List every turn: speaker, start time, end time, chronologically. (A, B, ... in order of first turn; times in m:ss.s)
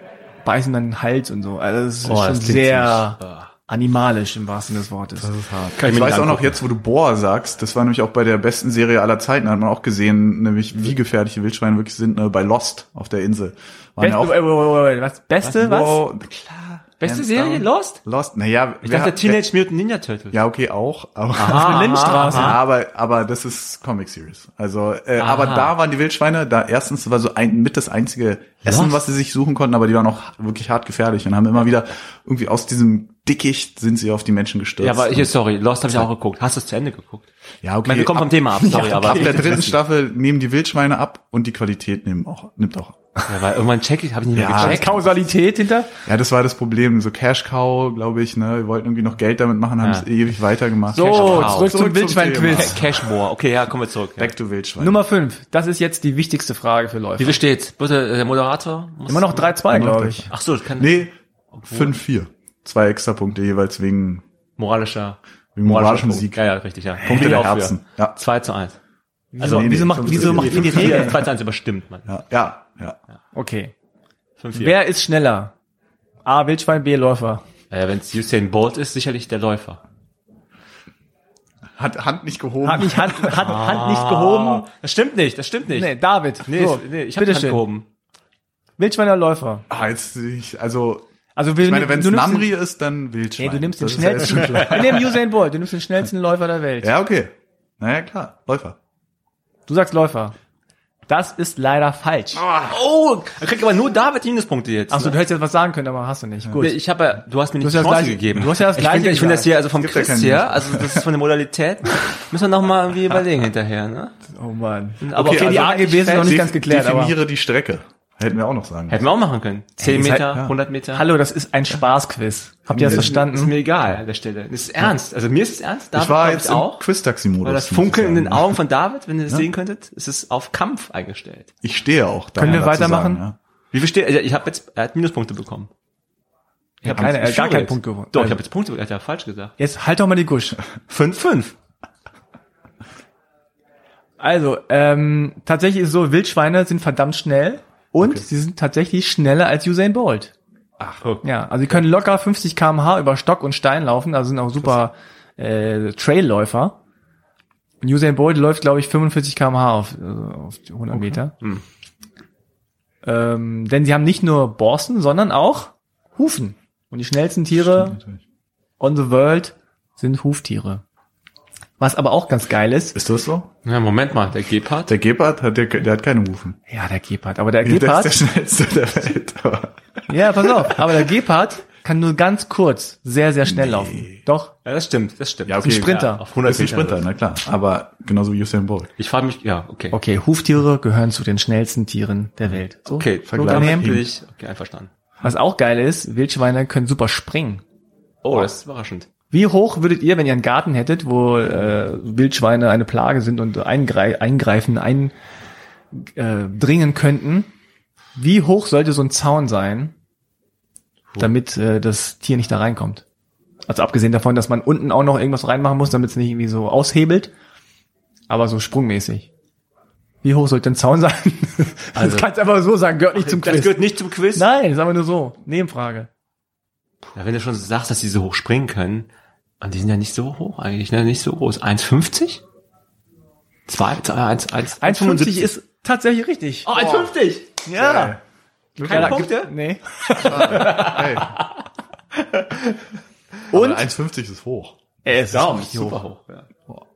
0:00.4-0:05.3 A
0:02.1-0:03.5 B
0:05.2-0:14.4 C
0:05.8-0:06.6 B
0:14.0-0:16.0 A
0:15.5-0:19.5 C
0:17.0-0:18.0 B
0:18.8-0:20.4 B
0:20.3-0:35.3 C
0:21.4-0:22.6 B
0:21.5-0:22.6 A
0:25.2-0:25.7 B
0:28.6-0:29.0 B
0:34.8-0:37.3 B
0:37.6-0:43.0 C
0:37.9-0:39.8 B
0:38.7-0:39.6 A
0:43.3-0:45.2 B
0:44.4-0:44.9 C
0:44.5-0:45.9 A
0:46.0-0:53.0 C
0:49.8-0:50.1 B
0:50.9-0:52.8 A
0:50.9-0:51.8 B
0:52.4-0:54.3 B
0:54.2-0:55.0 C
0:54.8-0:57.4 A
0:57.2-0:59.6 B
0:59.1-1:00.3 A
0:59.7-1:01.2 C
1:00.3-1:02.0 B
1:01.7-1:04.2 C
1:04.6-1:08.8 B
1:05.6-1:06.4 C
1:07.0-1:08.2 C
1:09.3-1:11.2 A
1:09.4-1:12.1 B
1:09.4-1:11.2 C
1:12.1-1:13.0 C
1:13.3-1:13.7 A
1:14.4-1:14.8 B
1:14.5-1:15.5 A
1:16.3-1:17.4 A
1:17.7-1:19.8 B
1:21.8-1:23.6 C
1:22.6-1:24.7 A
1:23.4-1:27.9 B
1:25.7-1:27.6 A
1:28.8-1:29.7 A
1:29.7-1:31.1 C
1:31.4-1:32.5 A
1:31.6-1:35.2 C
1:33.4-1:36.9 A
1:34.3-1:35.0 B
1:36.8-1:38.8 C
1:39.7-1:40.4 A
1:41.1-1:42.4 A
1:42.5-1:45.2 B
1:44.9-1:46.8 A
1:46.6-1:54.2 B
1:47.6-1:49.5 A
1:49.8-1:51.1 C
1:54.3-1:57.2 A
1:55.0-1:56.4 B
1:55.2-1:59.0 C
1:58.9-2:01.0 B
1:59.8-2:00.4 A
2:00.9-2:03.5 A
2:02.7-2:03.1 C
2:02.8-2:06.8 B
2:05.9-2:08.6 C
2:07.4-2:11.5 B
2:11.6-2:13.4 C
2:12.4-2:13.2 A
2:13.7-2:15.7 B
2:16.8-2:19.6 B
2:16.8-2:18.4 A
2:19.6-2:20.6 A
2:20.9-2:21.6 B
2:24.2-2:30.3 A
2:28.0-2:28.2 C
2:31.2-2:36.8 A
2:37.8-2:41.3 A
2:43.0-2:48.0 A
2:47.5-2:48.2 C
2:48.8-2:50.8 A
2:51.8-2:53.0 A
2:53.0-2:53.5 C
2:53.6-2:54.9 B
2:54.9-2:56.6 C
2:56.7-2:58.2 A
2:57.6-2:59.8 C
3:00.1-3:04.5 A
3:00.5-3:00.8 C
3:03.5-3:04.2 C
3:04.6-3:07.1 B
3:05.5-3:08.9 C
3:05.6-3:06.2 A
3:09.0-3:10.0 B
3:09.9-3:13.9 A
3:12.9-3:14.9 B
3:13.3-3:14.1 C
3:15.2-3:17.6 A
3:18.2-3:19.1 B
3:19.3-3:25.1 A
3:25.9-3:27.5 A
3:28.2-3:29.9 A
3:31.2-3:33.0 A
3:33.7-3:37.3 A
3:38.3-3:39.3 A
3:40.2-3:46.1 A
3:42.0-3:42.3 B
3:43.1-3:44.5 B
3:47.1-3:49.1 B
3:49.6-3:52.4 B
3:53.7-3:55.5 B
3:54.8-3:56.7 A
3:56.7-3:57.6 B
3:56.7-3:57.1 C
3:57.6-3:58.2 A
3:57.8-3:58.2 C
3:58.8-3:59.3 C
3:58.8-3:59.5 B
3:58.8-4:01.1 A
4:00.1-4:01.5 B
4:00.1-4:01.3 C
4:02.2-4:02.8 B
4:03.5-4:03.9 A
4:03.5-4:04.8 C
4:05.0-4:06.0 A
4:05.3-4:06.5 B